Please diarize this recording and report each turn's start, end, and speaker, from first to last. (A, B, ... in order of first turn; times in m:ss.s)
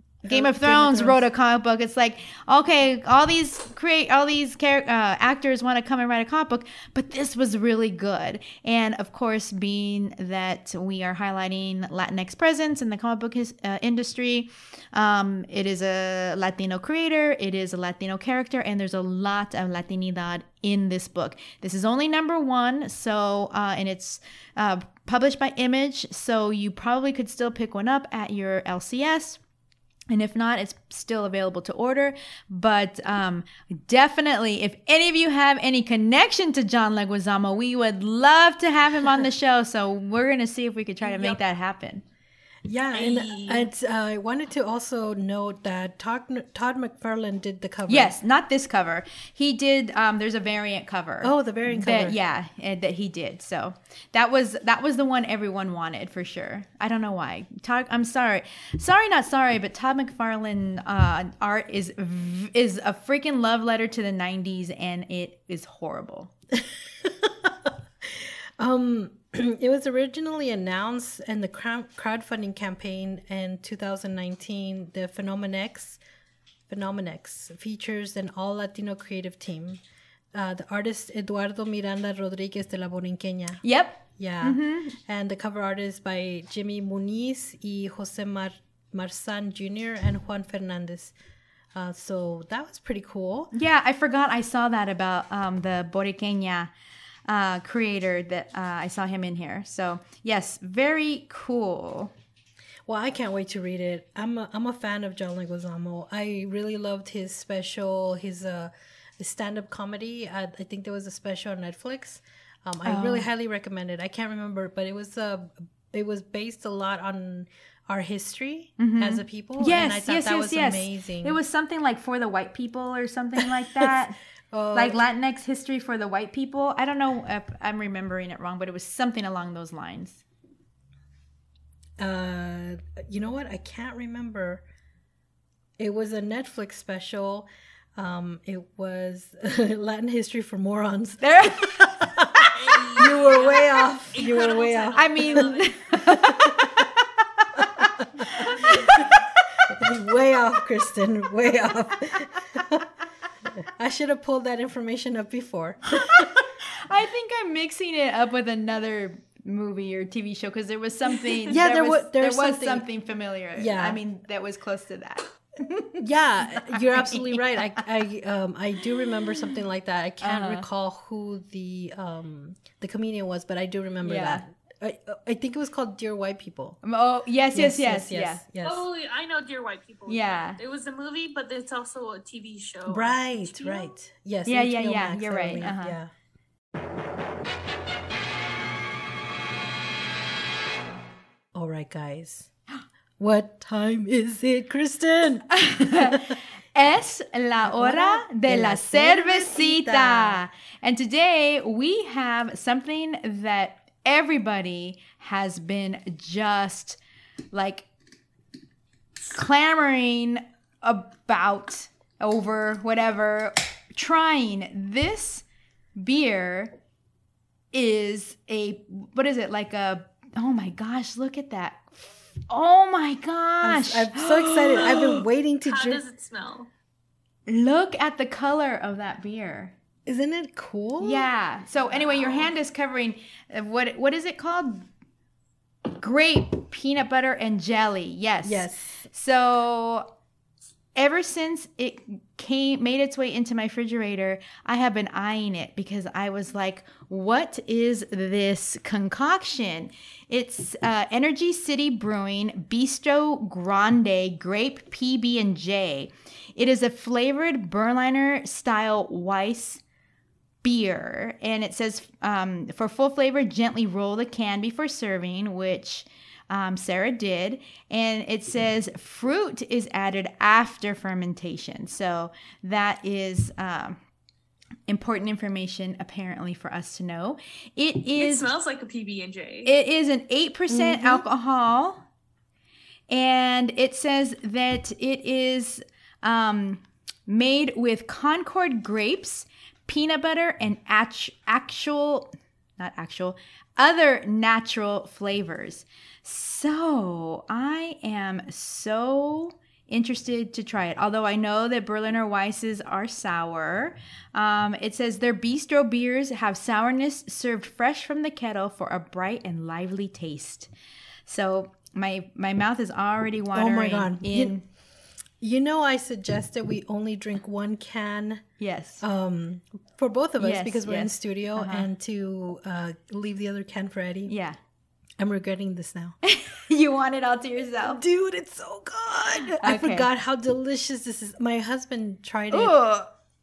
0:00.2-0:01.2 A
0:00.2-0:29.4 B
0:30.1-0:42.0 B
0:41.0-0:41.4 C
0:42.6-0:48.2 A
0:42.9-0:43.7 C
0:47.9-1:06.3 B
0:51.2-0:52.2 A
1:06.6-1:16.0 A
1:16.7-1:19.8 A
1:20.3-1:23.6 A
1:23.6-1:25.0 B
1:24.2-1:31.1 A
1:31.7-1:33.5 A
1:33.5-1:36.7 B
1:37.3-1:42.1 B
1:42.9-2:01.4 A
1:52.8-1:53.3 B
1:58.8-2:04.2 B
2:03.4-2:04.0 A
2:04.5-2:05.0 A
2:04.7-2:10.2 B
2:12.0-2:14.6 A
2:15.8-2:26.9 A
2:21.2-2:22.5 B
2:22.5-2:25.9 C
2:24.9-2:29.7 B
2:27.6-2:29.1 A
2:28.4-2:29.2 C
2:29.7-2:32.9 A
2:33.6-2:36.3 A
2:35.9-2:47.8 B
2:41.5-2:42.9 A
2:43.6-2:44.0 A
2:46.0-2:56.8 A
2:50.2-2:50.7 B
2:54.0-2:54.4 B
2:56.8-2:58.4 B
2:57.5-2:58.8 A
2:58.6-3:03.9 C
3:00.1-3:00.6 B
3:02.9-3:06.1 A
3:04.5-3:06.0 B
3:11.5-3:12.5 A
3:13.2-3:16.4 A
3:15.5-3:27.0 B
3:17.6-3:20.5 A
3:27.5-3:27.9 B
3:29.2-3:35.4 B
3:36.0-3:36.8 B
3:37.7-3:45.1 B
3:43.6-3:46.0 A
3:44.6-3:46.7 C
3:47.5-3:49.8 B
3:50.1-3:51.3 A
3:51.0-3:54.9 B
3:55.9-4:00.1 B
3:58.4-3:59.1 A
4:01.0-4:19.8 B
4:20.6-4:34.0 B
4:34.9-4:38.5 B
4:38.2-4:39.7 C
4:39.6-4:42.0 B
4:40.7-4:41.2 A
4:43.1-5:10.7 B
5:11.3-5:14.6 B
5:13.5-5:14.6 A
5:15.4-5:18.4 A
5:18.6-5:19.0 B
5:19.0-5:24.3 A
5:20.4-5:21.9 B
5:24.3-5:24.6 B
5:25.2-5:26.2 A
5:26.2-5:28.0 B
5:27.8-5:32.8 A
5:29.6-5:30.1 B
5:32.5-5:33.1 B